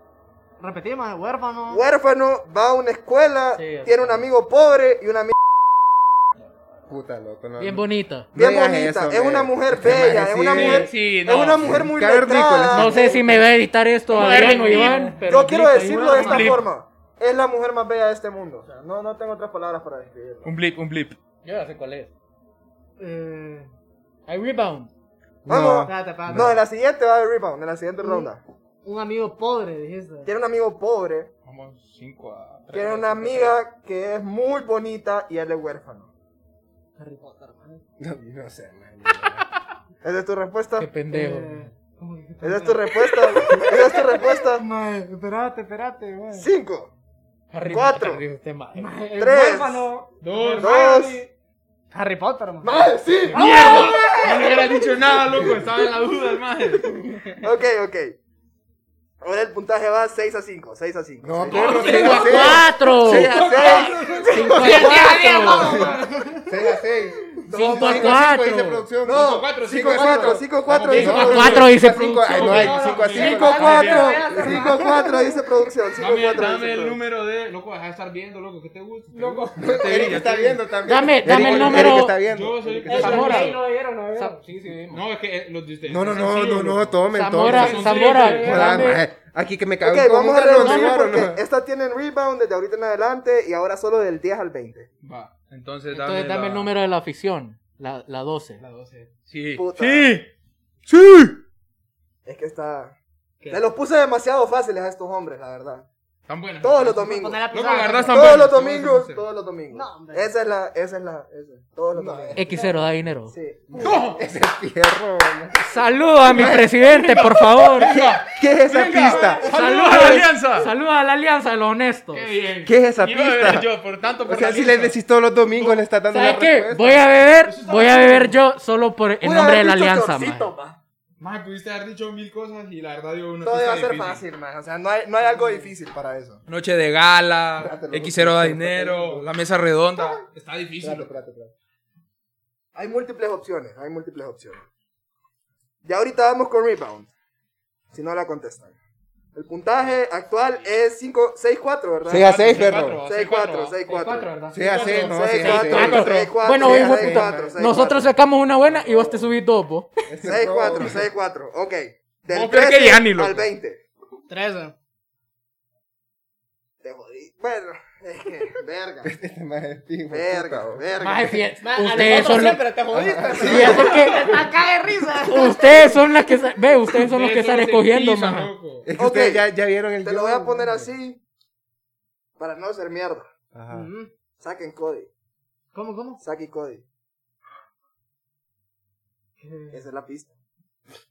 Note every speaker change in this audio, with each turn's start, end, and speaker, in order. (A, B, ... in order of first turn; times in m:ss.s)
0:00.6-0:01.8 A
0:01.7-0:05.4 B
0:03.5-0:04.2 C
0:06.9-0:10.9 D
0:07.6-0:08.3 C
0:08.4-0:13.1 B
0:10.5-0:11.8 E
0:11.6-0:13.4 D
0:12.7-0:16.5 C
0:14.1-0:16.6 E
0:14.2-0:15.2 A
0:15.2-0:20.5 B
0:20.4-0:21.2 E
0:21.4-0:22.1 C
0:23.0-0:23.7 A
0:24.3-0:24.9 C
0:25.4-0:26.6 D
0:25.5-0:28.4 B
0:25.8-0:26.5 A
0:28.0-0:28.3 A
0:28.8-0:30.3 A
0:30.2-0:31.3 B
0:31.4-0:33.6 E
0:32.7-0:36.1 B
0:37.0-0:37.8 A
0:38.0-0:39.4 D
0:40.0-0:40.9 B
0:40.8-0:41.7 C
0:41.1-0:46.5 A
0:42.4-0:44.6 B
0:46.3-0:46.9 B
0:47.5-0:48.9 C
0:47.7-0:48.2 B
0:48.7-0:51.2 A
0:49.2-0:49.9 B
0:50.2-0:51.0 E
0:50.6-0:51.2 B
0:51.9-0:54.5 A
0:52.6-0:54.1 B
0:53.3-0:57.4 E
0:57.4-0:58.2 B
0:59.2-1:02.6 B
1:01.2-1:05.0 D
1:01.5-1:02.4 E
1:01.8-1:03.3 C
1:03.1-1:04.3 E
1:03.4-1:05.7 B
1:04.3-1:05.7 C
1:04.5-1:06.6 A
1:05.6-1:13.8 D
1:07.4-1:08.2 B
1:07.5-1:08.8 C
1:09.0-1:11.6 B
1:09.1-1:14.3 E
1:11.1-1:12.6 C
1:12.5-1:15.4 A
1:13.1-1:17.0 B
1:14.3-1:14.6 D
1:16.0-1:20.6 E
1:19.1-1:20.0 A
1:19.6-1:23.2 D
1:20.8-1:22.2 C
1:21.2-1:23.6 E
1:22.8-1:24.7 A
1:22.9-1:23.6 C
1:24.1-1:25.0 C
1:24.9-1:28.9 E
1:25.8-1:31.4 D
1:27.1-1:29.0 C
1:28.1-1:28.7 A
1:29.8-1:34.9 B
1:30.5-1:31.0 C
1:35.0-1:36.7 E
1:35.9-1:38.6 C
1:38.6-1:40.3 E
1:39.6-1:40.2 B
1:40.8-1:41.4 E
1:42.2-1:42.9 B
1:43.5-1:45.9 B
1:46.3-1:49.2 E
1:46.6-1:47.4 B
1:47.0-1:48.4 A
1:48.0-1:52.7 B
1:49.7-1:50.3 A
1:51.9-1:52.5 D
1:52.3-1:53.3 C
1:53.3-1:54.0 B
1:53.7-1:55.7 D
1:53.8-1:54.2 E
1:55.6-1:58.0 C
1:56.3-1:56.7 D
1:56.4-2:00.7 E
1:57.9-1:59.4 D
1:59.0-1:59.4 A
1:59.4-2:02.3 C
2:02.1-2:05.0 E
2:02.6-2:03.7 D
2:04.2-2:07.2 D
2:05.5-2:05.8 E
2:06.1-2:10.5 C
2:07.4-2:08.4 E
2:09.2-2:10.8 B
2:11.2-2:14.2 E
2:13.4-2:16.4 B
2:16.5-2:21.1 E
2:17.6-2:19.3 D
2:20.8-2:21.5 D
2:22.7-2:24.6 B
2:25.8-2:27.1 B
2:27.9-2:28.7 B
2:29.3-2:32.5 B
2:32.0-2:33.0 D
2:32.1-2:34.0 E
2:33.0-2:38.1 B
2:33.9-2:39.9 C
2:34.5-2:37.8 D
2:34.6-2:35.1 E
2:38.7-2:39.3 D
2:40.1-2:41.1 D
2:40.2-2:43.8 B
2:42.3-2:43.5 E
2:44.3-2:44.7 A
2:46.8-2:49.1 B
2:49.0-2:50.9 D
2:50.1-2:51.4 B
2:51.0-2:52.7 C
2:51.6-2:56.0 A
2:52.9-2:53.9 D
2:52.9-2:53.9 B
2:53.3-2:54.2 C
2:55.2-2:58.5 C
2:56.9-2:58.9 E
2:58.8-3:00.9 D
2:59.0-2:59.4 B
3:00.0-3:01.2 B
3:02.4-3:03.3 B
3:03.5-3:03.9 D
3:03.7-3:04.1 A
3:04.4-3:05.1 B
3:05.7-3:06.2 A
3:06.2-3:06.8 B
3:09.4-3:09.8 A
3:09.7-3:10.3 B